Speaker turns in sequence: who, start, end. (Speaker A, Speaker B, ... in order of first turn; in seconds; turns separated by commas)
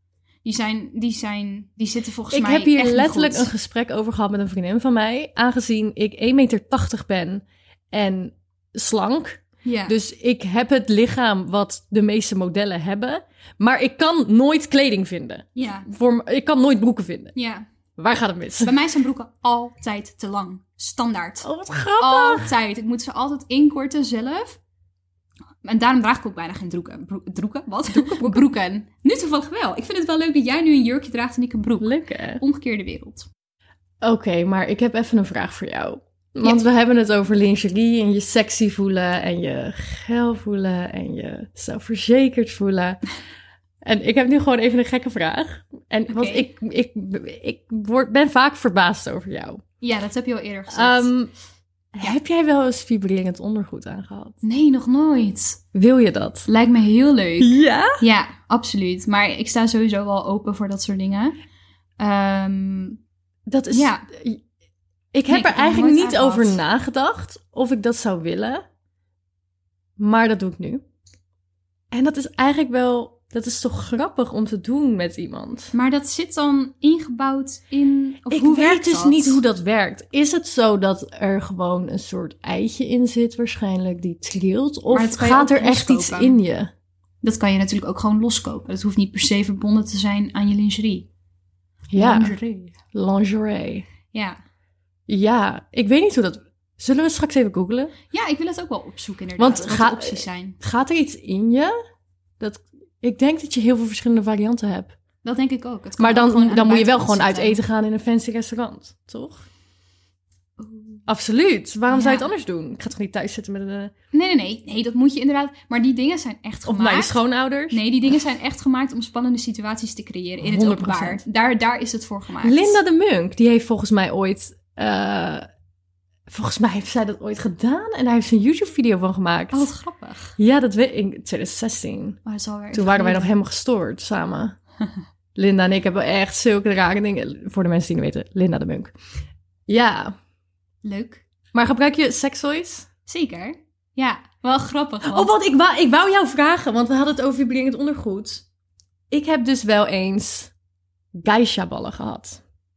Speaker A: 0.4-3.5, Speaker B: 2.3-17.4, Speaker A: 9.6-9.9, Speaker A: 15.6-15.9, Speaker A: 17.4-17.6, Speaker B: 18.0-18.7, Speaker A: 18.6-21.5, Speaker B: 21.4-22.5, Speaker A: 22.0-24.6, Speaker A: 25.6-33.3, Speaker B: 27.9-28.4, Speaker B: 31.8-32.4, Speaker B: 34.0-43.0, Speaker B: 43.8-49.6, Speaker A: 46.1-46.5, Speaker A: 49.8-51.1, Speaker B: 50.7-51.3, Speaker B: 51.9-54.4, Speaker A: 54.4-55.6, Speaker B: 55.7-56.5, Speaker A: 56.5-61.4, Speaker B: 57.4-58.0, Speaker A: 62.0-63.0, Speaker B: 63.5-64.4, Speaker A: 63.7-64.0, Speaker B: 65.1-68.6, Speaker A: 65.3-66.6, Speaker B: 70.0-70.8, Speaker B: 71.9-75.7, Speaker A: 75.7-79.4, Speaker B: 78.3-86.7, Speaker A: 84.9-86.4, Speaker A: 87.2-91.1, Speaker B: 91.9-92.3, Speaker A: 92.0-92.7, Speaker B: 92.9-93.8, Speaker A: 94.1-94.4, Speaker B: 95.1-97.9, Speaker A: 98.1-100.6, Speaker B: 99.4-101.7, Speaker B: 102.4-104.9, Speaker A: 105.2-107.6, Speaker B: 106.0-109.5, Speaker A: 110.6-111.0, Speaker B: 111.1-113.9, Speaker A: 111.9-112.3, Speaker A: 114.1-117.1, Speaker B: 116.7-118.1, Speaker A: 117.7-122.8, Speaker B: 120.4-121.2, Speaker B: 122.4-125.5, Speaker B: 126.3-129.7, Speaker A: 129.5-130.4, Speaker B: 130.4-132.2, Speaker A: 132.2-133.3, Speaker B: 132.7-134.6, Speaker B: 135.3-138.9, Speaker B: 139.7-140.2, Speaker A: 140.8-141.2, Speaker B: 141.5-142.9, Speaker A: 143.1-145.3, Speaker B: 145.0-148.4, Speaker B: 149.1-150.5, Speaker B: 151.1-152.4